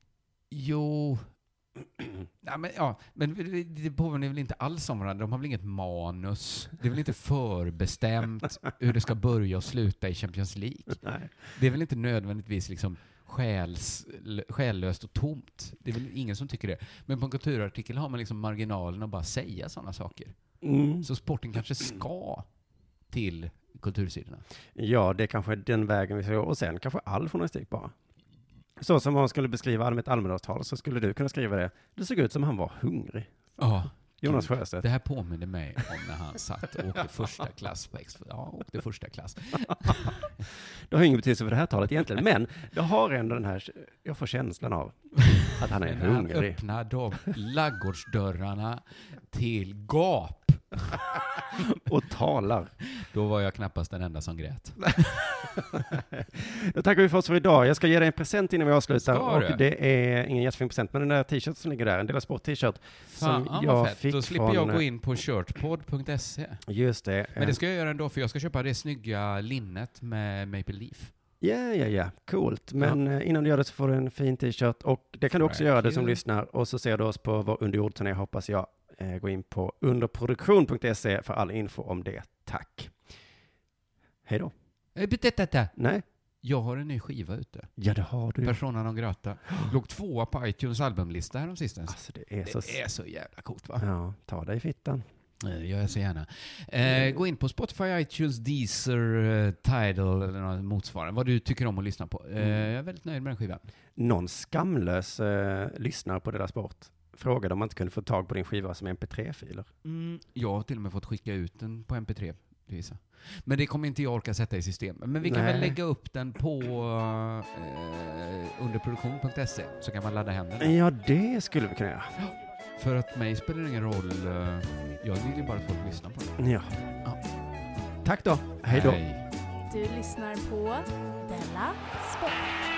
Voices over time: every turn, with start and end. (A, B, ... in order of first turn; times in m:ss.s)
0:00.5-0:01.3 A
0:02.4-0:20.4 A
0:11.0-0:11.3 B
0:20.6-0:21.1 B
0:21.0-0:22.5 A
0:23.1-0:24.4 A
0:24.8-0:27.9 B
0:28.8-0:33.6 B
0:33.6-0:40.3 A
0:34.2-0:34.8 B
0:40.8-0:46.6 B
0:45.8-0:50.9 A
0:51.7-0:52.7 B
0:53.0-0:55.6 A
0:56.0-1:04.8 B
0:59.0-0:59.6 A
1:03.1-1:06.6 A
1:06.7-1:07.6 B
1:07.4-1:11.1 A
1:11.4-1:23.0 B
1:15.4-1:16.2 A
1:24.3-1:24.5 B
1:25.0-1:25.7 A
1:25.8-1:26.0 B
1:26.4-1:27.7 A
1:27.8-1:28.6 B
1:28.4-1:33.8 A
1:31.9-1:32.8 B
1:33.8-1:35.0 B
1:35.4-1:43.7 A
1:44.0-1:49.7 B
1:49.8-2:00.8 A
1:55.2-1:55.8 B
2:00.6-2:02.1 B
2:02.2-2:06.4 A
2:06.4-2:06.7 B
2:08.0-2:09.0 B
2:08.7-2:09.2 A
2:09.7-2:12.6 C